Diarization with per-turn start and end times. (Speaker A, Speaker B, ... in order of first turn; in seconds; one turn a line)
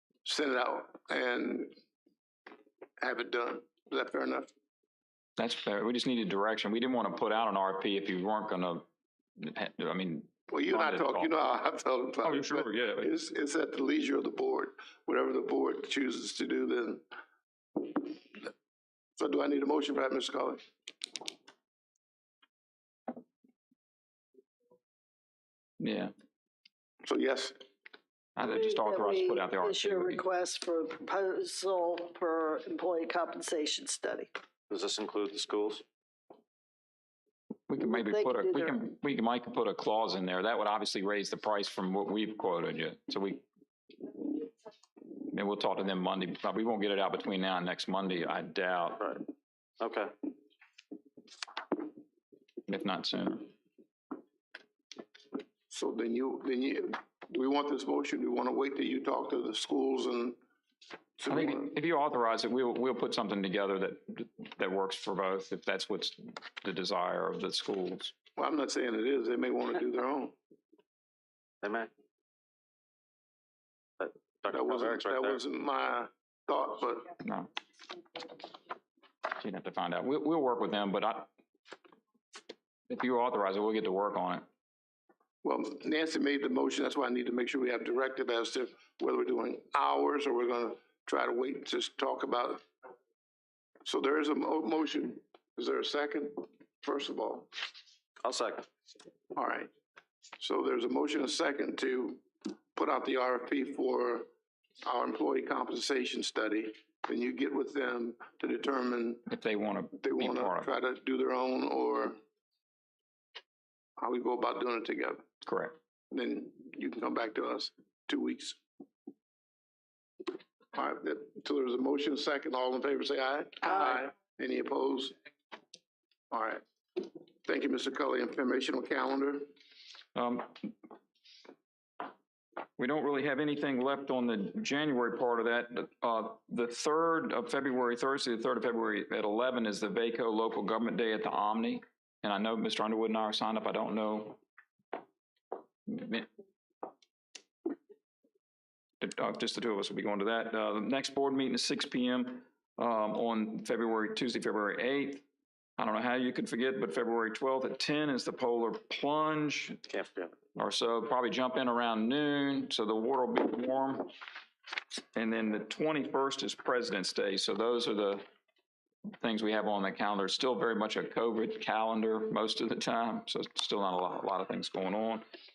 Speaker A: 0.2-1.7
Speaker A: 3.0-4.5
Speaker B: 5.4-8.8
Speaker B: 9.4-11.3
Speaker A: 10.5-17.0
Speaker B: 12.2-13.1
Speaker A: 17.8-18.5
Speaker A: 19.2-20.6
Speaker B: 25.8-26.1
Speaker A: 27.1-27.6
Speaker B: 28.4-30.2
Speaker C: 28.4-34.3
Speaker D: 34.7-35.8
Speaker B: 37.7-43.5
Speaker C: 37.8-38.8
Speaker B: 45.3-49.1
Speaker D: 49.0-49.2
Speaker D: 49.8-50.1
Speaker B: 52.7-53.5
Speaker A: 55.7-60.4
Speaker A: 61.2-61.7
Speaker B: 61.3-68.1
Speaker A: 68.4-70.4
Speaker D: 71.6-71.9
Speaker D: 74.0-75.4
Speaker A: 74.5-77.1
Speaker B: 77.2-77.5
Speaker B: 79.4-81.3
Speaker B: 82.9-84.5
Speaker A: 85.4-92.6
Speaker A: 93.8-97.5
Speaker D: 98.2-98.7
Speaker A: 99.3-99.7
Speaker A: 100.4-102.2
Speaker A: 102.8-104.3
Speaker A: 104.8-109.3
Speaker B: 109.3-110.7
Speaker A: 110.0-112.2
Speaker A: 114.0-115.2
Speaker B: 115.5-115.8
Speaker A: 116.1-118.6
Speaker A: 120.7-125.1
Speaker A: 126.3-129.5
Speaker B: 130.2-130.7
Speaker B: 132.8-144.4
Speaker B: 145.9-146.3
Speaker B: 149.0-155.2
Speaker B: 155.8-159.8
Speaker D: 159.9-160.3
Speaker B: 160.6-164.1
Speaker B: 165.2-168.2
Speaker B: 169.2-175.2